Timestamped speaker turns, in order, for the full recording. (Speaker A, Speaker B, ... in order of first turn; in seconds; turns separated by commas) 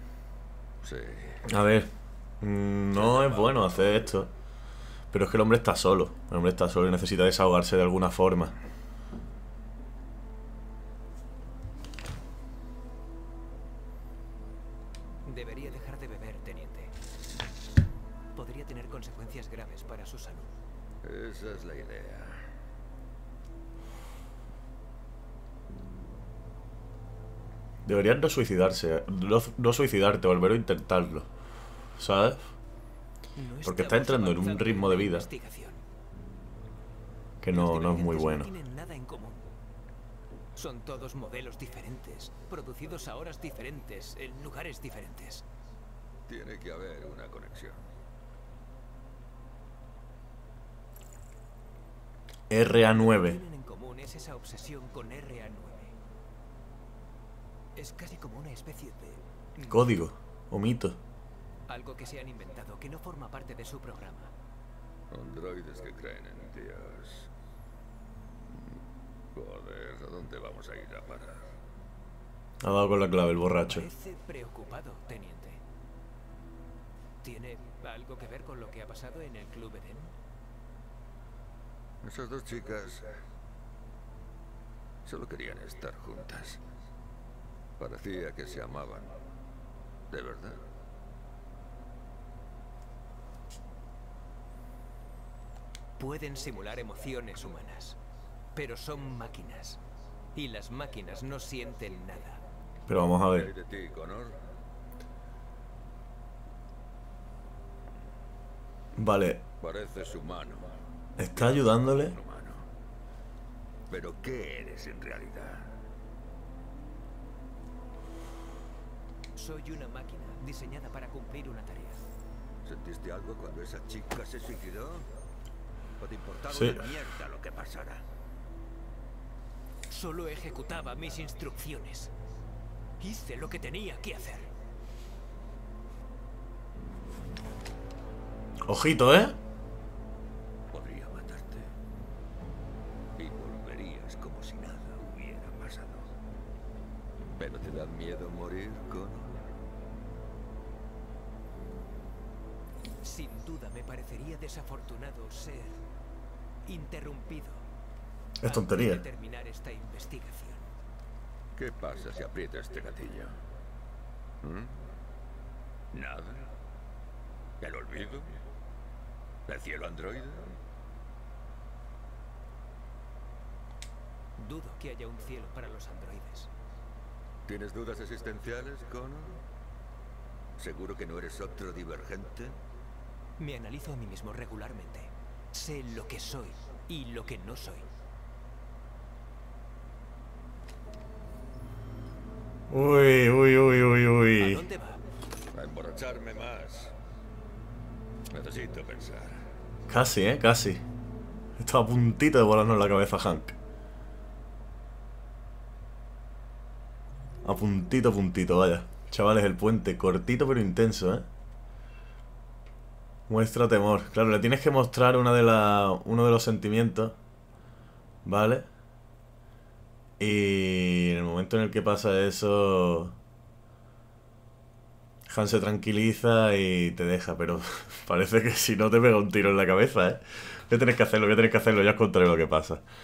Speaker A: 0.8-1.5, Speaker B: 1.4-1.9, Speaker B: 2.4-4.3, Speaker A: 2.9-4.1, Speaker B: 5.1-8.5, Speaker C: 15.2-16.9, Speaker C: 18.3-20.5, Speaker A: 21.0-22.5, Speaker B: 27.8-31.3, Speaker B: 32.0-32.5, Speaker C: 33.3-35.8, Speaker B: 33.6-35.3, Speaker B: 37.4-38.5, Speaker C: 37.5-39.5, Speaker C: 40.5-45.5, Speaker A: 46.3-47.9, Speaker B: 52.5-53.4, Speaker C: 52.9-56.0, Speaker C: 57.8-60.0, Speaker B: 59.7-61.0, Speaker C: 61.7-64.3, Speaker A: 65.1-67.3, Speaker A: 69.3-71.5, Speaker B: 72.6-73.9, Speaker C: 73.7-75.6, Speaker C: 77.2-80.1, Speaker A: 82.0-83.1, Speaker A: 85.0-86.6, Speaker A: 87.8-89.2, Speaker A: 90.1-90.6, Speaker C: 96.0-98.0, Speaker C: 98.5-99.8, Speaker C: 100.3-102.4, Speaker B: 102.9-103.5, Speaker A: 103.3-104.4, Speaker B: 109.0-109.4, Speaker A: 109.6-110.8, Speaker B: 111.2-112.2, Speaker A: 111.3-112.7, Speaker A: 113.9-115.8, Speaker C: 119.3-122.0, Speaker A: 122.6-125.1, Speaker A: 126.0-128.0, Speaker B: 126.5-126.8, Speaker C: 129.9-132.1, Speaker C: 133.0-134.5, Speaker B: 138.7-139.4, Speaker A: 140.7-141.7, Speaker A: 143.2-146.1, Speaker A: 147.3-149.4, Speaker C: 153.0-155.8, Speaker C: 156.7-157.7, Speaker B: 158.4-159.0, Speaker C: 158.4-160.7, Speaker A: 161.6-163.4, Speaker A: 164.4-164.8, Speaker A: 165.9-166.5, Speaker A: 167.6-168.4, Speaker A: 169.5-170.6, Speaker C: 174.4-176.5, Speaker A: 177.5-179.4, Speaker A: 180.6-182.6, Speaker C: 183.4-187.9, Speaker B: 192.7-194.6, Speaker C: 194.4-195.0, Speaker A: 195.5-196.9, Speaker A: 198.3-199.4, Speaker B: 199.9-200.8, Speaker B: 201.6-203.6, Speaker B: 207.4-211.2, Speaker B: 213.3-217.2, Speaker B: 218.2-218.7, Speaker B: 220.2-223.1, Speaker B: 225.3-232.8